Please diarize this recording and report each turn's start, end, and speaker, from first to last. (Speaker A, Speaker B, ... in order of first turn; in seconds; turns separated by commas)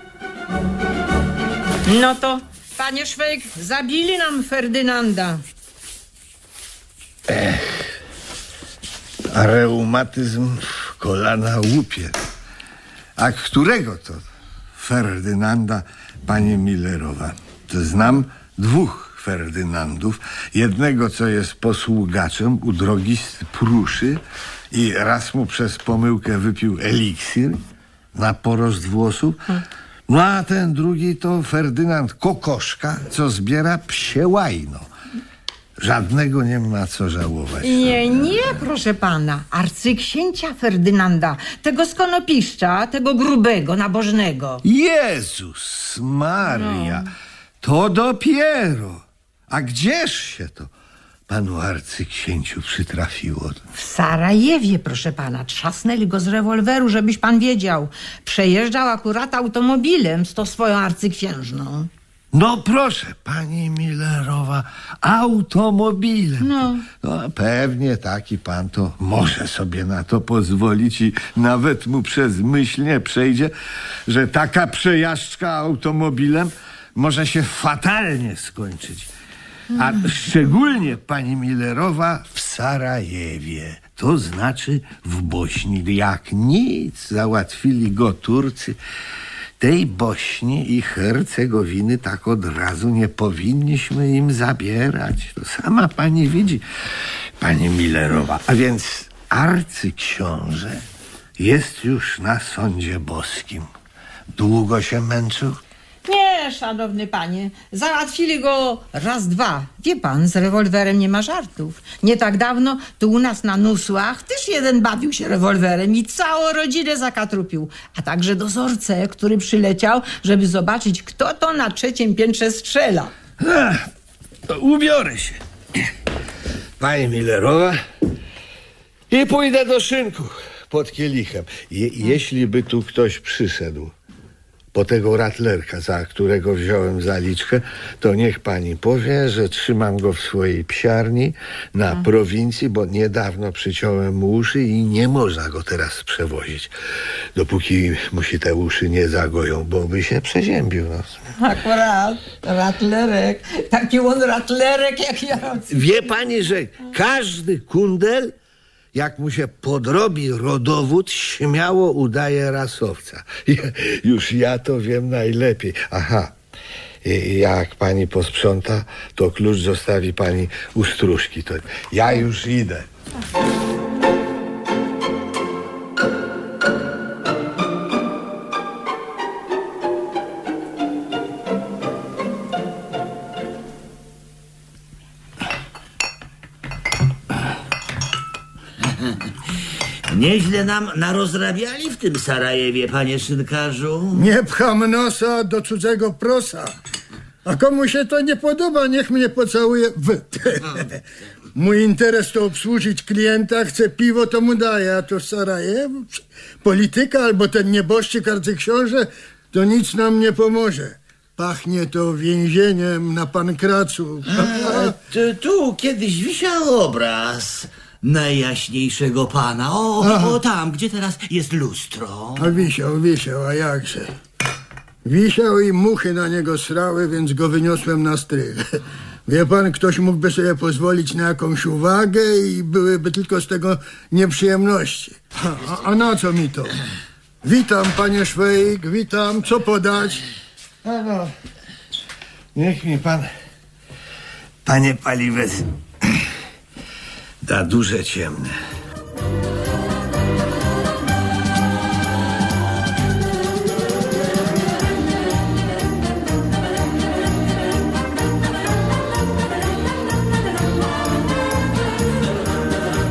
Speaker A: 1.9-5.4, Speaker B: 7.3-7.7, Speaker B: 9.3-12.2, Speaker B: 13.2-14.2, Speaker B: 14.8-24.2, Speaker B: 24.7-27.6, Speaker B: 28.1-34.9, Speaker B: 35.8-38.0, Speaker A: 37.6-44.6, Speaker B: 44.6-47.1, Speaker A: 46.5-47.1, Speaker B: 47.6-50.7, Speaker B: 51.3-53.6, Speaker A: 53.8-61.9, Speaker B: 62.3-73.5, Speaker A: 66.4-66.8, Speaker B: 74.1-79.1, Speaker B: 79.7-88.8, Speaker B: 89.6-96.6, Speaker B: 97.4-100.8, Speaker B: 101.4-103.7, Speaker B: 104.3-105.6, Speaker A: 106.0-123.1, Speaker B: 123.4-123.8, Speaker B: 124.5-125.4, Speaker B: 126.8-127.8, Speaker B: 129.1-133.9, Speaker B: 134.7-146.7, Speaker B: 147.3-151.2, Speaker A: 151.4-156.0, Speaker B: 155.7-158.3, Speaker B: 158.9-166.3, Speaker B: 167.0-172.9, Speaker C: 190.1-194.2, Speaker D: 194.1-196.7, Speaker D: 197.4-201.0, Speaker D: 201.5-215.0, Speaker C: 214.3-222.5, Speaker D: 220.0-220.4, Speaker D: 222.4-224.1, Speaker D: 225.0-228.6, Speaker D: 229.3-236.8, Speaker D: 237.4-240.2, Speaker B: 240.8-241.3, Speaker B: 242.5-243.3, Speaker B: 244.6-246.2, Speaker B: 247.4-248.5